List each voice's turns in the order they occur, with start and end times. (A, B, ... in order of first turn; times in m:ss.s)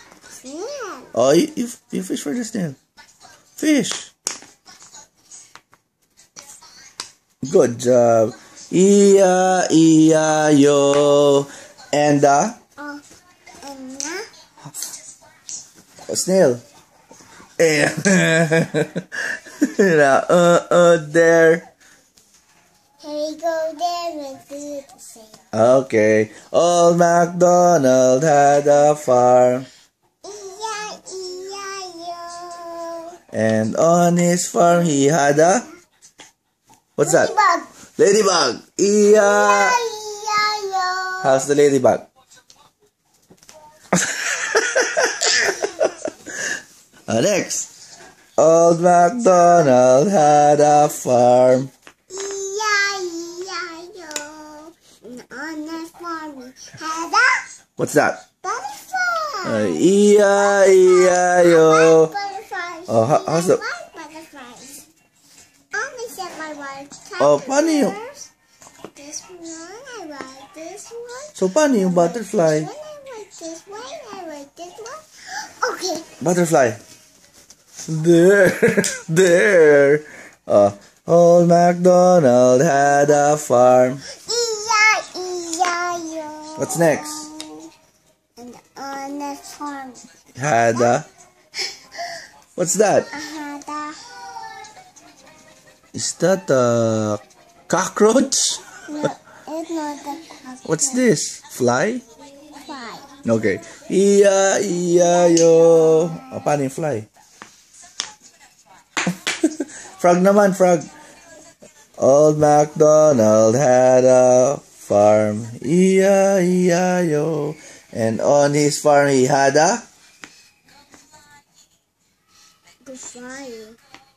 0:00.4-0:01.1 A
0:01.1-0:02.8 B
0:03.6-0:04.1 B
0:07.4-0:12.6 B
0:12.8-0:13.0 A
0:13.6-0:14.2 A
0:16.1-0:16.6 B
0:17.6-0:21.6 B
0:23.0-0:25.4 A
0:25.5-0:29.7 B
0:30.2-0:33.2 A
0:33.3-0:35.6 B
0:37.0-0:37.3 B
0:37.0-0:37.7 A
0:38.0-0:39.8 B
0:39.0-0:41.5 A
0:41.2-0:42.0 B
0:43.9-0:45.5 B
0:47.1-0:47.7 B
0:48.4-0:51.7 B
0:49.4-0:51.0 A
0:52.1-0:57.5 A
0:57.8-0:58.2 B
0:58.4-1:04.9 A
0:59.4-1:02.1 B
1:02.9-1:03.6 B
1:05.7-1:08.3 A
1:07.2-1:08.0 B
1:08.9-1:16.1 A
1:11.3-1:12.7 B
1:16.2-1:16.8 B
1:17.9-1:24.0 B
1:22.7-1:23.2 A
1:24.1-1:27.7 A
1:26.6-1:27.3 B
1:28.4-1:30.0 A
1:30.4-1:31.1 B
1:32.6-1:33.1 B
1:33.1-1:34.2 A
1:35.9-1:38.6 B
1:38.8-1:41.0 A
1:40.6-1:42.0 B
1:42.5-1:43.2 A
1:43.2-1:47.1 B
1:44.9-1:46.5 A
1:49.4-1:50.9 B
1:52.0-1:59.8 B
2:02.8-2:03.8 A